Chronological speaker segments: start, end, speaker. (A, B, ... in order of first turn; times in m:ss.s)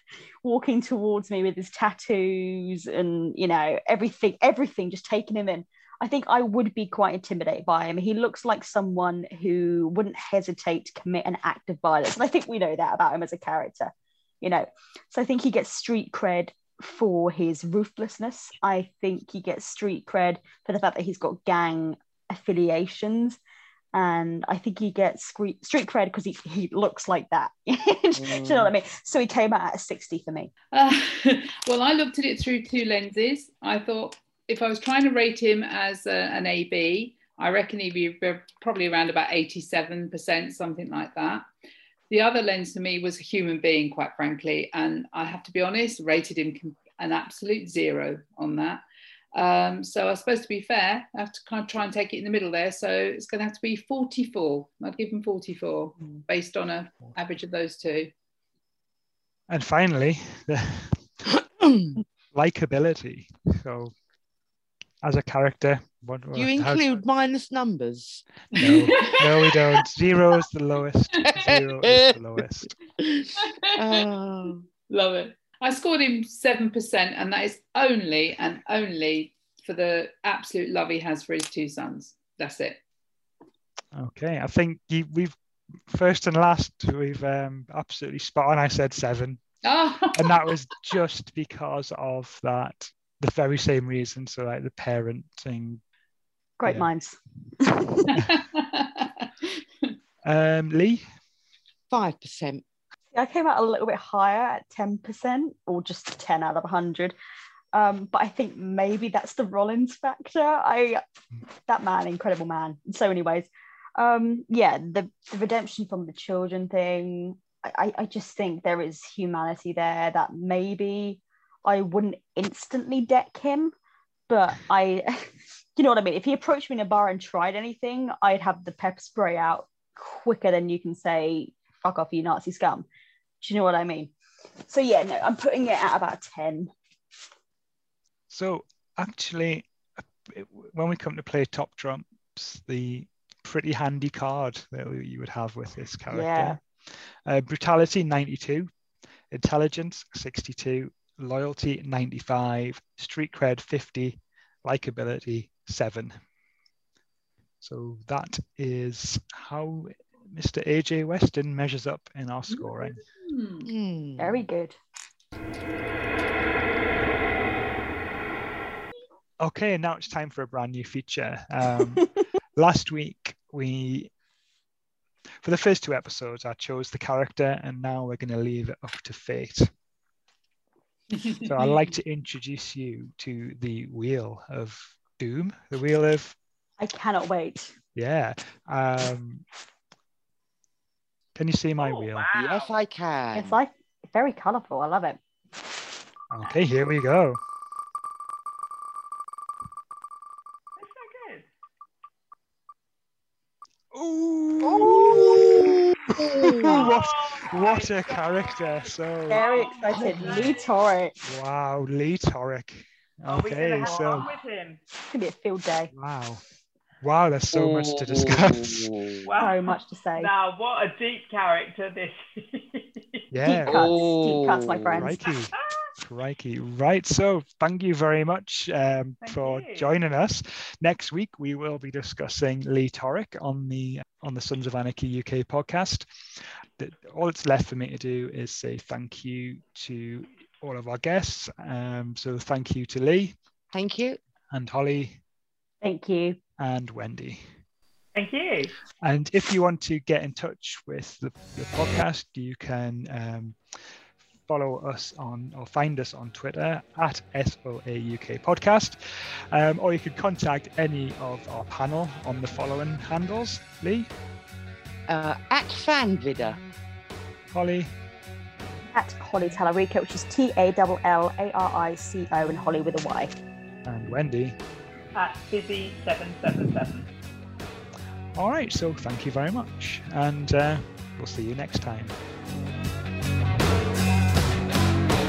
0:00.4-0:23.4 A
0:23.9-0:30.5 A
0:28.1-0:28.7 B
0:30.7-0:41.4 C
0:42.1-0:48.8 C
0:49.3-0:58.1 C
0:59.5-1:01.1 D
1:01.6-1:02.0 B
1:02.3-1:03.9 D
1:05.0-1:07.0 D
1:06.3-1:08.2 B
1:08.5-1:12.7 D
1:08.6-1:09.2 C
1:11.2-1:12.4 B
1:13.0-1:14.6 B
1:13.7-1:14.0 C
1:14.9-1:22.8 C
1:23.9-1:25.4 D
1:25.9-1:29.4 D
1:29.6-1:30.5 C
1:30.1-1:35.8 D
1:36.6-1:38.2 A
1:38.2-1:39.9 C
1:40.2-1:41.0 D
1:41.9-1:42.6 B
1:43.1-1:47.1 A
1:47.7-1:51.0 A
1:51.7-2:03.7 A
2:04.3-2:12.8 A
2:13.4-2:14.1 A
2:14.7-2:16.7 A
2:18.3-2:19.7 D
2:20.3-2:26.6 D
2:26.1-2:26.6 A
2:27.2-2:28.7 D
2:29.3-2:36.2 D
2:37.6-2:43.0 D
2:43.2-2:43.7 C
2:43.6-2:44.4 B
2:44.2-2:44.7 A
2:49.4-2:54.1 D
2:55.4-2:59.7 D
3:01.4-3:06.4 D
3:06.8-3:07.7 A
3:08.0-3:09.4 D
3:11.4-3:12.3 D
3:11.8-3:12.8 E
3:12.3-3:13.6 B
3:13.3-3:15.2 A
3:16.3-3:17.4 D
3:20.8-3:21.5 E
3:23.9-3:25.7 D
3:24.8-3:26.8 B
3:26.6-3:29.4 D
3:26.6-3:30.8 E
3:29.3-3:31.2 A
3:30.0-3:30.5 D
3:31.2-3:34.3 D
3:33.3-3:34.8 E
3:35.1-3:35.9 A
3:35.9-3:36.4 D
3:37.0-3:38.9 D
3:37.5-3:39.2 B
3:39.2-3:43.2 E
3:39.4-3:40.3 A
3:43.3-3:43.8 D
3:43.5-3:45.1 A
3:43.7-3:45.0 B
3:45.0-3:56.0 D
3:45.2-3:45.8 E
3:49.2-3:49.9 E
3:56.8-4:03.4 D
4:03.7-4:04.2 B
4:04.5-4:05.2 D
4:05.8-4:06.4 A
4:06.6-4:07.4 D
4:08.1-4:08.7 E
4:09.0-4:13.6 D
4:14.5-4:19.0 D
4:19.5-4:24.1 D
4:25.1-4:26.6 B
4:27.5-4:27.9 D
4:28.9-4:33.3 A
4:33.8-4:34.6 D
4:35.1-4:37.1 E
4:38.4-4:42.2 D